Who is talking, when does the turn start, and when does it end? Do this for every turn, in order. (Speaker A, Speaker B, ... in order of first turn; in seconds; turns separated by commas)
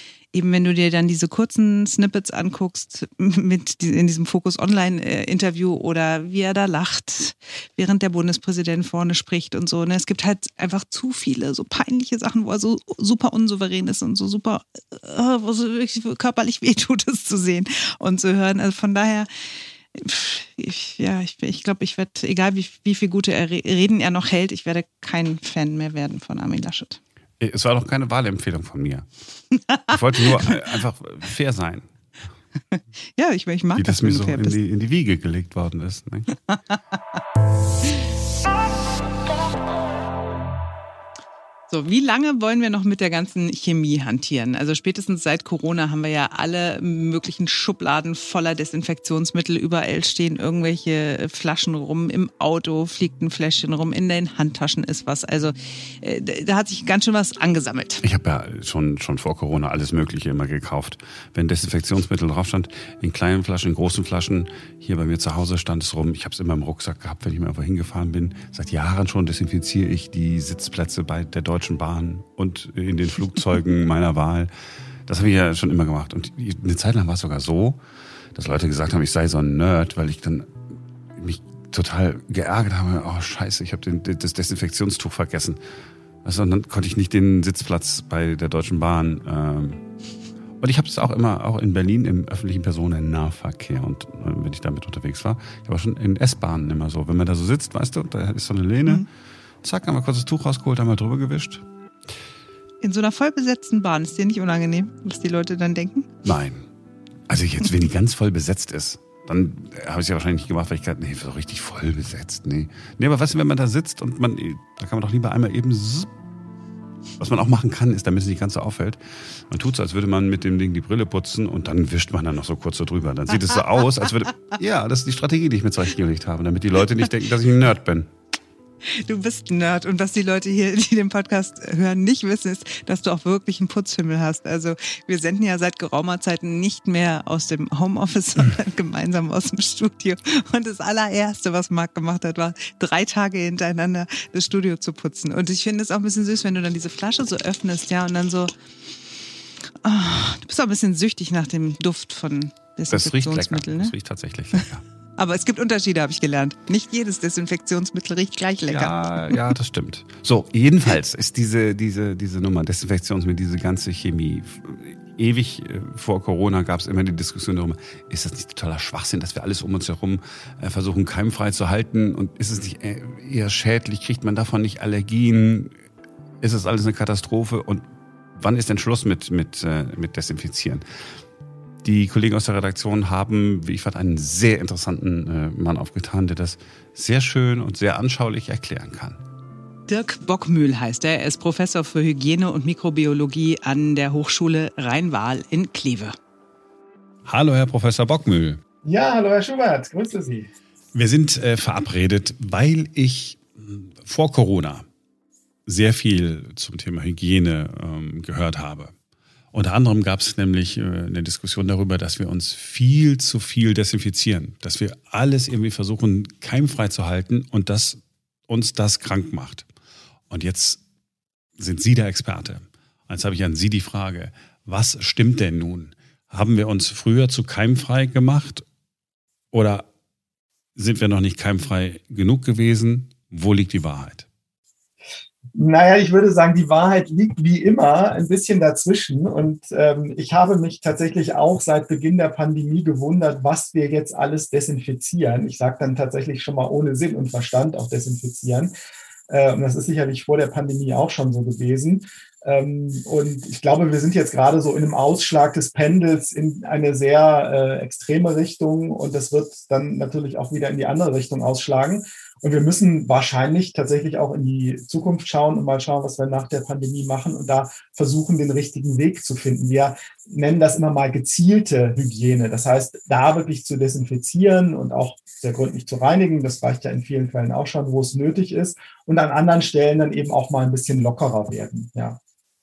Speaker A: 0.3-19.3, Speaker A: 19.9-27.0, Speaker B: 27.4-29.1, Speaker B: 29.9-31.9, Speaker A: 33.2-34.6, Speaker B: 33.8-36.4, Speaker A: 41.7-58.0, Speaker B: 58.0-74.5, Speaker B: 75.1-77.8, Speaker B: 78.3-80.5, Speaker B: 81.1-85.6, Speaker B: 86.2-89.8, Speaker B: 90.6-99.0, Speaker B: 99.6-101.6, Speaker A: 102.8-106.1, Speaker B: 106.2-106.7, Speaker B: 107.3-116.1, Speaker B: 117.2-128.1, Speaker A: 128.9-148.5, Speaker A: 149.8-153.9, Speaker B: 152.9-154.8, Speaker A: 155.2-159.3, Speaker B: 158.7-175.7, Speaker B: 176.4-180.8, Speaker B: 181.8-189.2, Speaker A: 189.9-196.1, Speaker B: 197.2-198.6, Speaker C: 198.8-200.5, Speaker B: 200.9-204.8, Speaker B: 205.7-208.9, Speaker B: 209.5-219.7, Speaker B: 220.3-220.8, Speaker B: 221.6-228.6, Speaker B: 229.5-229.9, Speaker B: 230.8-234.3, Speaker C: 235.5-248.7, Speaker C: 249.3-282.2